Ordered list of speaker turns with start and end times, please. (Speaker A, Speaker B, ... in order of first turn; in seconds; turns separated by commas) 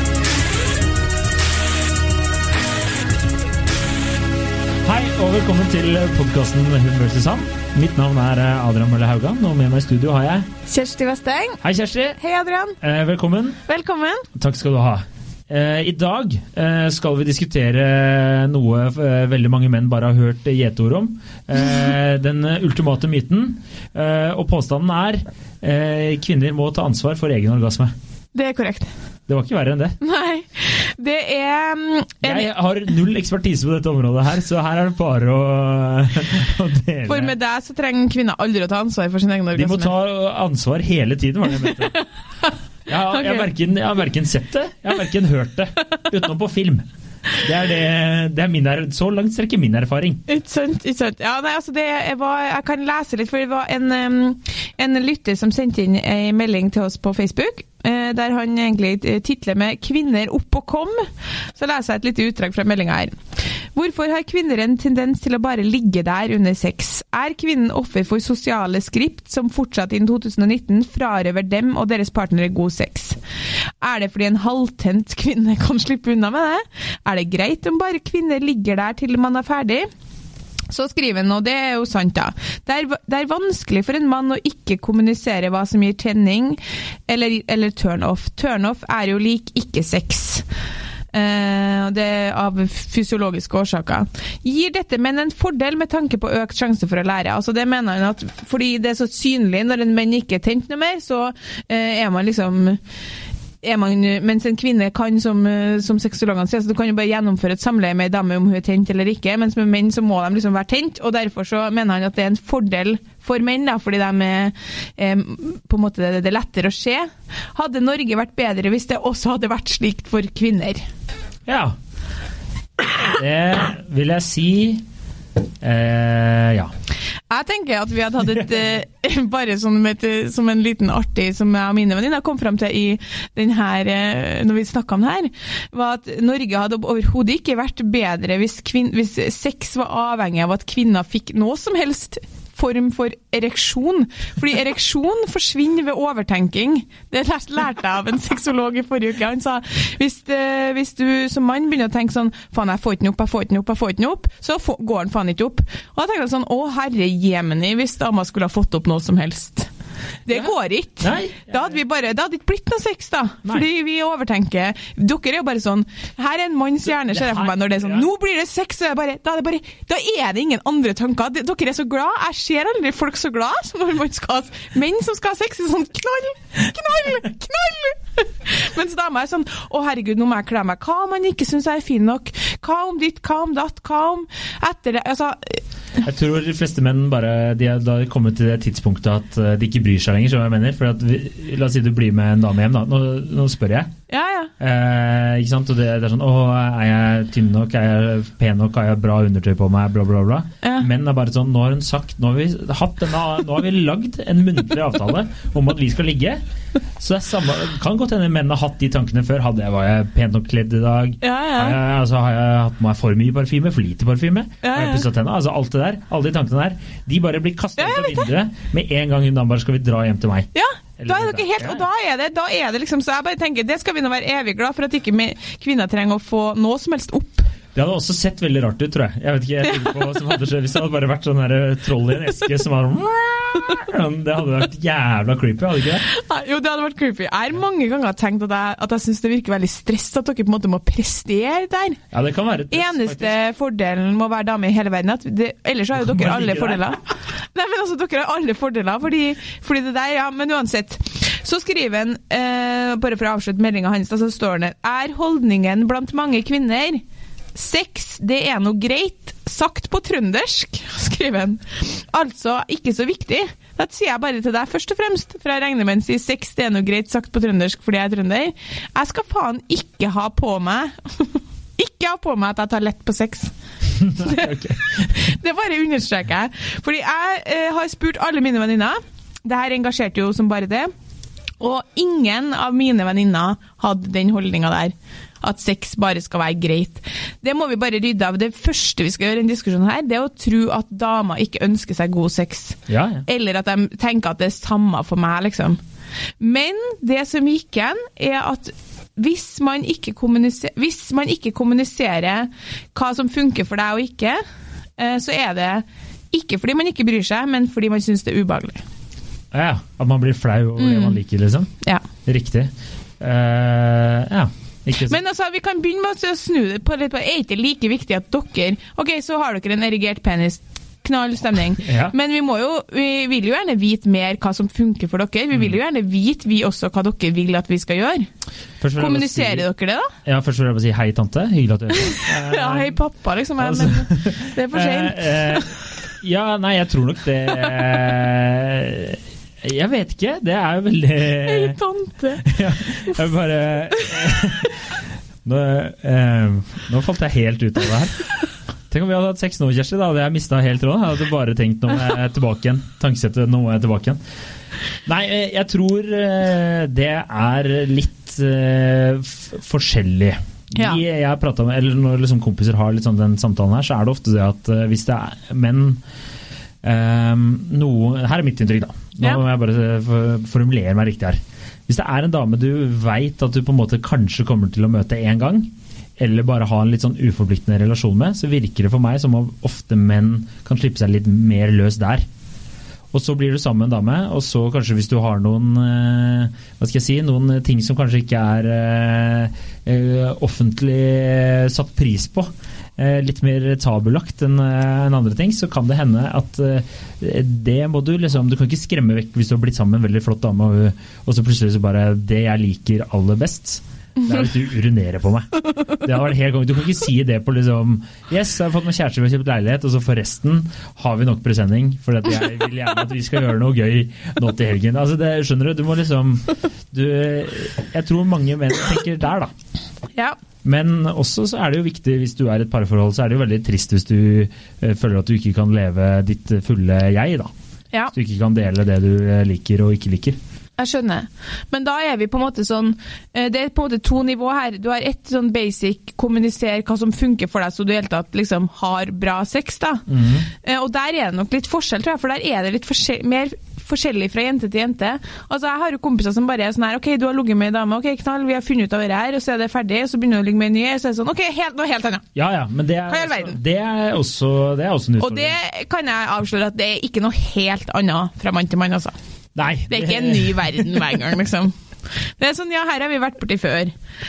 Speaker A: 4.8-10.5, Speaker B: 10.7-11.6, Speaker A: 11.6-12.2, Speaker B: 12.2-12.8, Speaker A: 12.8-13.6, Speaker B: 13.7-14.3, Speaker A: 14.3-27.9, Speaker B: 28.3-28.9, Speaker A: 29.3-30.0, Speaker B: 30.0-32.5, Speaker A: 32.2-37.3, Speaker B: 37.1-39.9, Speaker A: 39.5-41.9, Speaker B: 41.6-42.5, Speaker A: 42.9-46.8, Speaker B: 43.1-43.5, Speaker A: 47.4-50.2, Speaker B: 50.3-63.2, Speaker B: 63.7-73.2, Speaker B: 73.8-79.9, Speaker B: 80.7-90.4, Speaker B: 91.1-102.8, Speaker B: 103.6-120.8, Speaker A: 121.5-121.7, Speaker A: 123.0-124.8, Speaker A: 125.6-126.7, Speaker B: 127.3-159.7, Speaker A: 128.3-128.6, Speaker B: 160.2-185.6, Speaker A: 160.3-161.8, Speaker A: 167.0-168.1, Speaker A: 186.0-193.9, Speaker B: 194.1-194.5, Speaker A: 194.6-206.4, Speaker B: 200.6-200.9, Speaker A: 207.0-221.8, Speaker B: 211.2-211.8, Speaker B: 214.6-215.0, Speaker B: 217.8-218.3, Speaker B: 220.5-227.5, Speaker A: 227.7-236.0, Speaker B: 229.7-229.9, Speaker B: 236.1-242.0, Speaker A: 242.1-243.3, Speaker B: 242.7-257.0, Speaker A: 245.9-246.9, Speaker B: 257.5-273.5, Speaker A: 273.9-275.1, Speaker B: 274.2-280.9, Speaker B: 281.6-295.8, Speaker A: 292.9-293.2, Speaker B: 296.4-304.4, Speaker B: 305.0-308.8, Speaker A: 309.5-311.7, Speaker B: 310.8-311.2, Speaker A: 312.2-315.2, Speaker B: 315.1-328.3, Speaker A: 321.8-322.1, Speaker A: 328.8-329.7, Speaker B: 329.0-330.1, Speaker A: 330.2-332.9, Speaker B: 331.9-335.6, Speaker A: 333.6-341.8, Speaker B: 341.4-342.4, Speaker A: 342.4-344.7, Speaker A: 345.4-348.2, Speaker A: 348.9-354.2, Speaker A: 355.1-366.0, Speaker A: 366.8-382.2, Speaker A: 383.1-419.5, Speaker A: 420.6-427.5, Speaker A: 428.1-430.4, Speaker B: 430.8-440.0, Speaker A: 440.1-440.4, Speaker B: 440.6-452.2, Speaker A: 452.3-455.5, Speaker B: 453.1-453.6, Speaker B: 455.2-459.1, Speaker A: 459.6-461.1, Speaker B: 459.9-461.7, Speaker B: 462.4-463.9